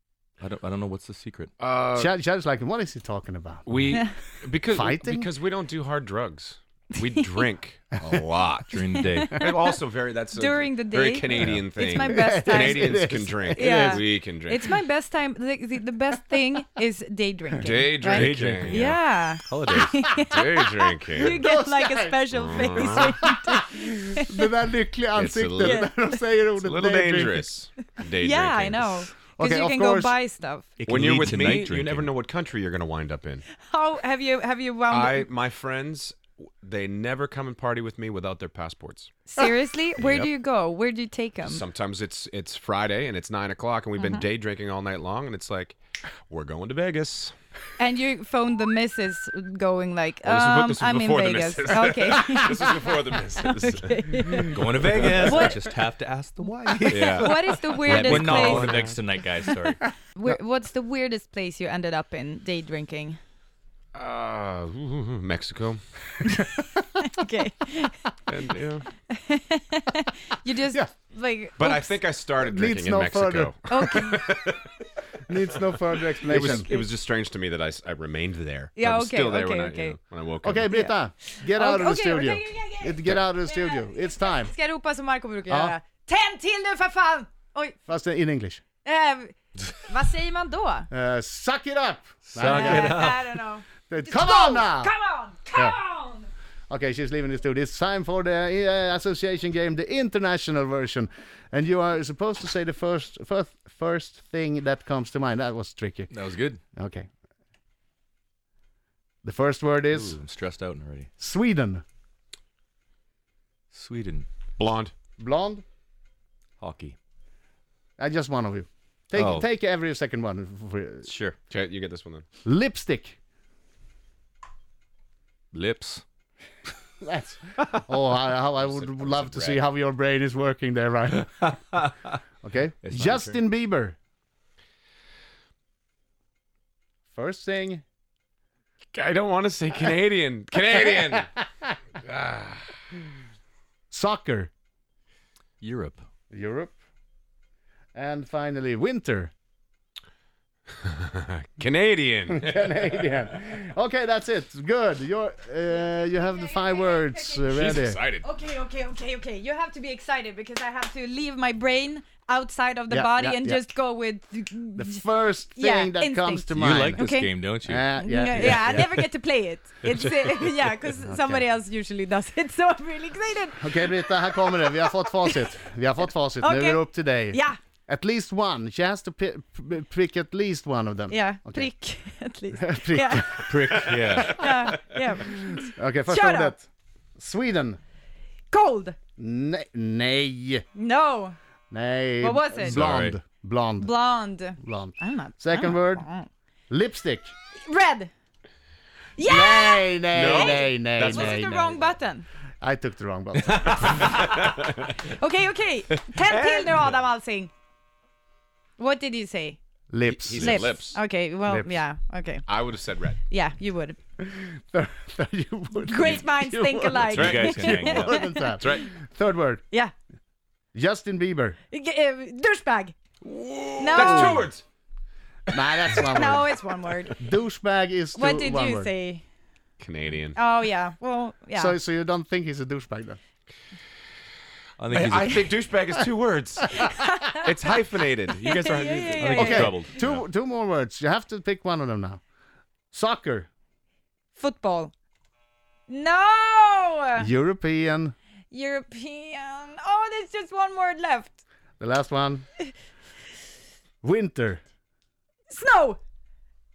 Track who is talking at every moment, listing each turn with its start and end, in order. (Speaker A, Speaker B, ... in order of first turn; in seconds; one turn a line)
Speaker A: 0.4-1.5
Speaker B: 1.6-2.1
Speaker C: 1.9-4.0
Speaker B: 3.7-8.7
Speaker C: 4.6-5.3
Speaker A: 8.7-9.4
Speaker D: 9.1-9.5
Speaker B: 9.3-14.7
Speaker D: 10.3-24.5
Speaker A: 11.3-11.7
Speaker C: 12.0-14.0
Speaker B: 17.6-18.9
Speaker A: 18.1-20.1
Speaker B: 20.3-21.4
Speaker C: 21.2-27.5
Speaker B: 22.3-23.1
Speaker B: 25.1-25.8
Speaker D: 25.6-26.2
Speaker B: 26.6-29.0
Speaker D: 28.2-30.7
Speaker C: 29.4-30.1
Speaker A: 30.8-32.2
Speaker B: 30.9-33.4
Speaker D: 33.6-35.3
Speaker B: 34.9-39.1
Speaker D: 39.3-41.6
Speaker B: 40.0-40.3
Speaker B: 41.4-47.3
Speaker D: 44.0-44.2
Speaker D: 47.8-52.8
Speaker B: 50.2-55.5
Speaker D: 53.5-55.6
Speaker A: 54.4-59.8
Speaker B: 56.9-57.3
Speaker D: 57.0-58.9
Speaker B: 57.8-59.0
Speaker D: 60.1-63.2
Speaker B: 63.9-65.8
Speaker D: 66.2-68.0
Speaker B: 68.3-68.9
Speaker D: 69.1-71.9
Speaker B: 71.6-74.7
Speaker C: 72.4-73.5
Speaker D: 73.7-74.2
Speaker C: 75.3-76.7
Speaker B: 76.2-80.7
Speaker D: 76.4-76.9
Speaker D: 78.8-80.0
Speaker C: 80.4-84.5
Speaker D: 80.7-87.8
Speaker C: 85.5-85.8
Speaker C: 87.9-88.6
Speaker D: 88.8-90.9
Speaker C: 90.9-93.0
Speaker A: 92.3-93.3
Speaker D: 92.4-96.3
Speaker C: 93.9-94.9
Speaker C: 96.7-106.1
Speaker A: 106.1-106.6
Speaker C: 106.8-107.1
Speaker C: 109.2-110.2
Speaker A: 109.9-111.1
Speaker C: 111.2-111.8
Speaker A: 113.7-114.3
Speaker B: 114.6-114.9
Speaker C: 115.2-115.6
Speaker A: 116.6-116.9
Speaker C: 118.0-121.1
Speaker A: 119.1-119.5
Speaker A: 121.0-121.3
Speaker B: 121.5-122.2
Speaker C: 122.4-123.2
Speaker A: 125.5-126.0
Speaker C: 127.0-131.6
Speaker B: 128.6-129.6
Speaker A: 131.5-131.9
Speaker C: 132.4-133.9
Speaker A: 132.8-133.3
Speaker C: 137.1-137.8
Speaker B: 138.9-141.3
Speaker B: 142.0-142.7
Speaker C: 143.9-144.5
Speaker A: 145.6-146.0
Speaker C: 146.3-146.7
Speaker C: 147.9-149.3
Speaker B: 150.8-152.7
Speaker C: 152.3-158.0
Speaker D: 155.8-157.6
Speaker B: 157.5-158.2
Speaker D: 158.2-175.4
Speaker C: 162.9-163.7
Speaker C: 164.8-167.0
Speaker A: 166.6-168.7
Speaker C: 167.6-168.9
Speaker C: 171.0-171.4
Speaker C: 173.6-181.7
Speaker D: 176.4-177.6
Speaker D: 181.1-183.5
Speaker C: 182.6-183.5
Speaker A: 183.5-184.5
Speaker B: 183.9-184.4
Speaker D: 184.3-186.5
Speaker C: 185.3-186.7
Speaker C: 187.2-187.8
Speaker D: 188.5-189.0
Speaker C: 189.2-190.6
Speaker D: 190.7-191.3
Speaker C: 191.7-194.0
Speaker D: 192.2-192.8
Speaker A: 192.6-193.2
Speaker D: 193.8-196.3
Speaker C: 194.6-196.1
Speaker C: 196.7-197.3
Speaker D: 197.6-198.1
Speaker D: 199.2-202.2
Speaker C: 199.2-201.8
Speaker B: 200.1-201.3
Speaker C: 202.6-204.1
Speaker B: 204.0-204.4
Speaker D: 205.1-207.5
Speaker B: 206.2-206.9
Speaker D: 208.8-209.6
Speaker C: 209.9-210.8
Speaker B: 210.1-211.0
Speaker D: 210.3-214.0
Speaker C: 211.4-211.7
Speaker B: 212.5-213.2
Speaker C: 214.2-219.6
Speaker D: 215.8-218.5
Speaker A: 217.1-218.2
Speaker B: 217.1-217.7
Speaker B: 218.6-218.9
Speaker C: 220.7-221.6
Speaker D: 221.7-222.9
Speaker B: 223.2-224.6
Speaker D: 223.8-224.5
Speaker C: 223.9-224.5
Speaker C: 225.5-226.6
Speaker D: 226.0-227.1
Speaker C: 227.2-228.9
Speaker D: 228.1-229.2
Speaker B: 229.8-230.4
Speaker D: 230.3-231.7
Speaker C: 231.5-233.2
Speaker A: 234.8-235.7
Speaker B: 234.9-240.2
Speaker D: 236.8-237.5
Speaker D: 238.4-239.8
Speaker A: 239.2-239.9
Speaker C: 239.3-242.2
Speaker C: 242.9-243.5
Speaker D: 244.3-244.9
Speaker D: 245.9-247.3
Speaker C: 247.2-248.1
Speaker D: 248.5-251.4
Speaker C: 251.8-252.4
Speaker C: 254.0-254.6
Speaker D: 255.5-256.0